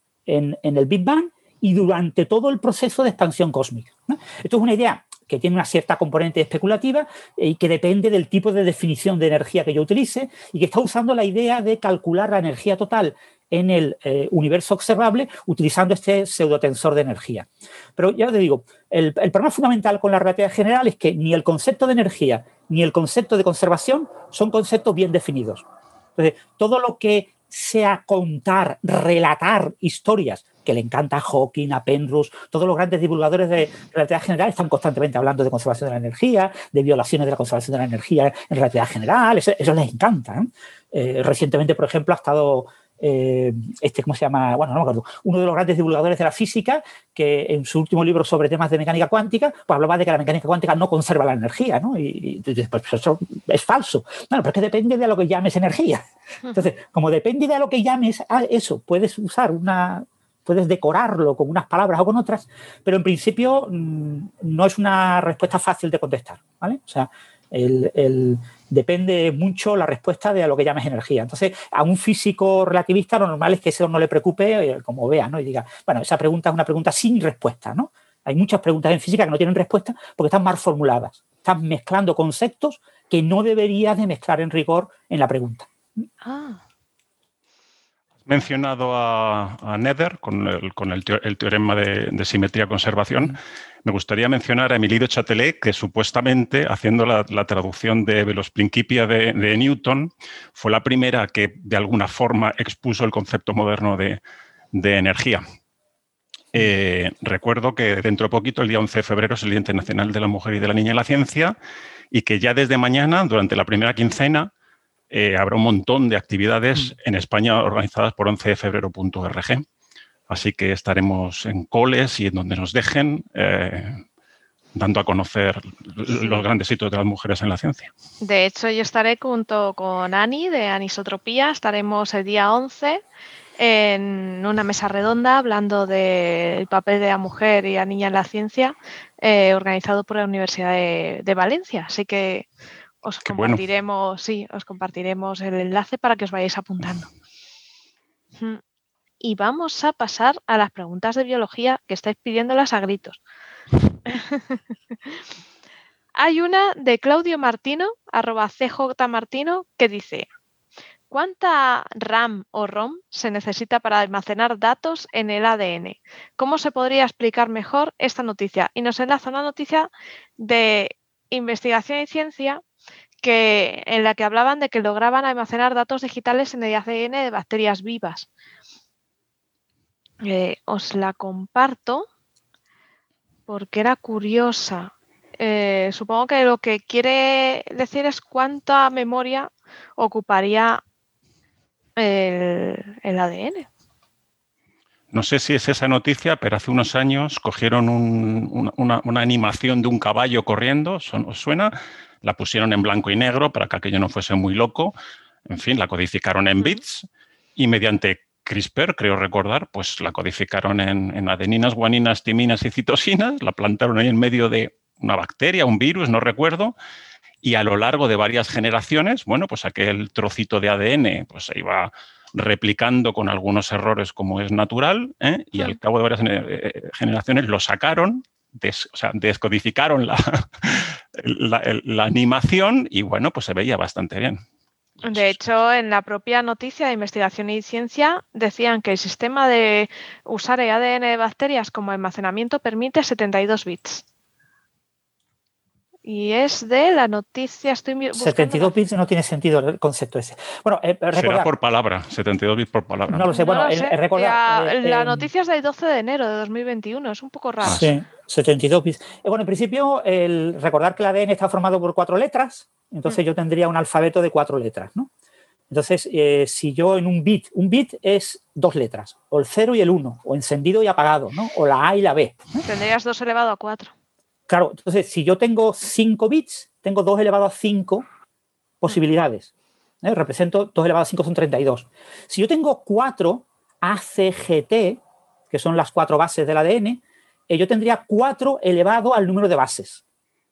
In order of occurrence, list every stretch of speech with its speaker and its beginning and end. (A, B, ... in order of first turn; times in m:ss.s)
0:00.3-0:25.6 A
0:26.2-1:25.7 A
1:26.2-1:26.6 B
1:28.2-1:44.2 C
1:44.7-1:45.4 C
1:46.5-1:51.5 C
1:52.1-1:54.5 C
1:55.1-1:59.6 C
2:00.3-2:04.0 C
2:04.7-2:07.9 C
2:08.2-2:13.0 B
2:13.6-2:22.4 B
2:23.0-2:27.1 B
2:23.2-2:23.6 C
2:28.4-2:28.6 B
2:29.2-2:33.2 B
2:34.1-2:35.2 B
2:36.2-2:40.2 B
2:41.1-2:52.6 B
2:53.2-2:58.3 B
3:00.2-3:02.0 B
3:03.5-3:10.8 B
3:12.0-3:13.7 B
3:15.1-3:24.9 C
3:25.5-3:36.7 C
3:37.4-3:54.4 C
3:55.0-4:04.0 B
3:55.0-3:55.4 C
4:06.0-4:08.7 B
4:08.2-4:11.5 A
4:11.1-4:13.3 C
4:13.1-4:15.3 A
4:13.3-4:17.9 B
4:17.6-4:17.9 C
4:17.7-4:25.1 A
4:25.7-4:32.6 A
4:32.6-4:33.9 B
4:34.5-4:38.1 A
4:38.8-4:39.5 A
4:40.0-4:45.0 A
4:45.5-4:50.0 A